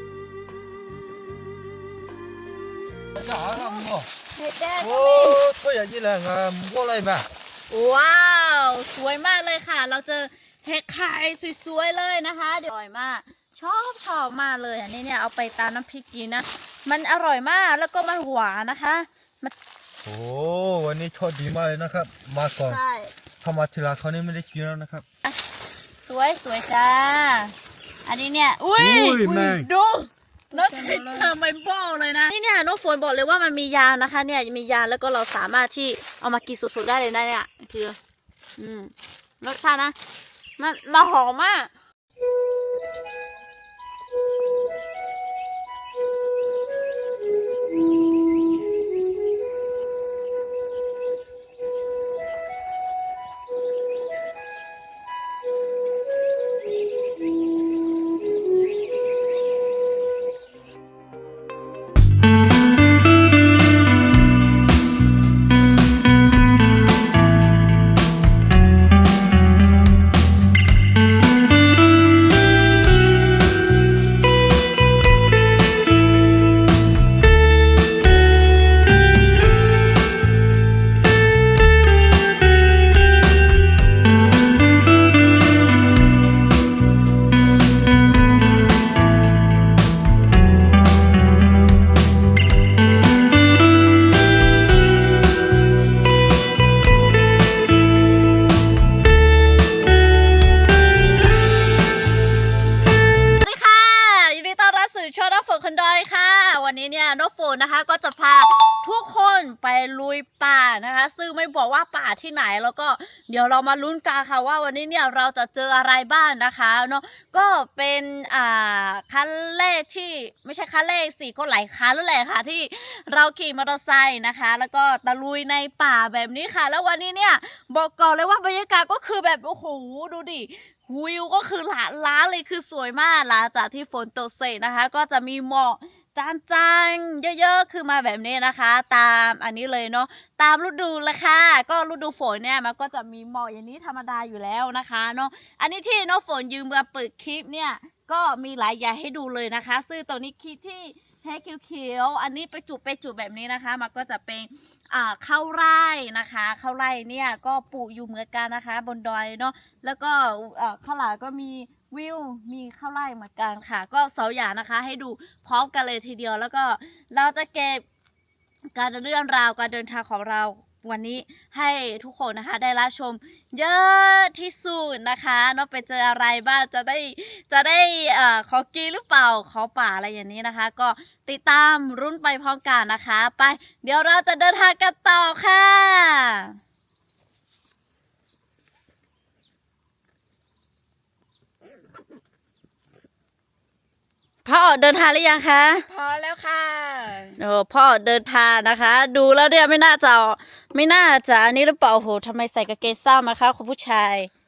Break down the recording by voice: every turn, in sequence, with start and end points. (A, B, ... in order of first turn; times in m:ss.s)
0:03.1-0:04.1 A
0:03.5-0:03.8 B
0:04.4-0:05.4 C
0:04.8-0:07.3 A
0:07.7-0:19.5 B
0:20.0-0:22.8 A
0:22.6-0:23.1 B
0:23.4-0:25.0 A
0:26.1-0:27.5 B
0:28.0-0:38.0 B
0:28.8-0:29.7 A
0:30.5-0:31.3 C
0:38.6-0:40.0 B
0:40.6-0:41.7 B
1:43.4-2:47.8 B
2:48.7-3:06.6 B
3:14.4-3:15.8 B
3:15.9-3:17.4 C
3:17.4-3:24.3 B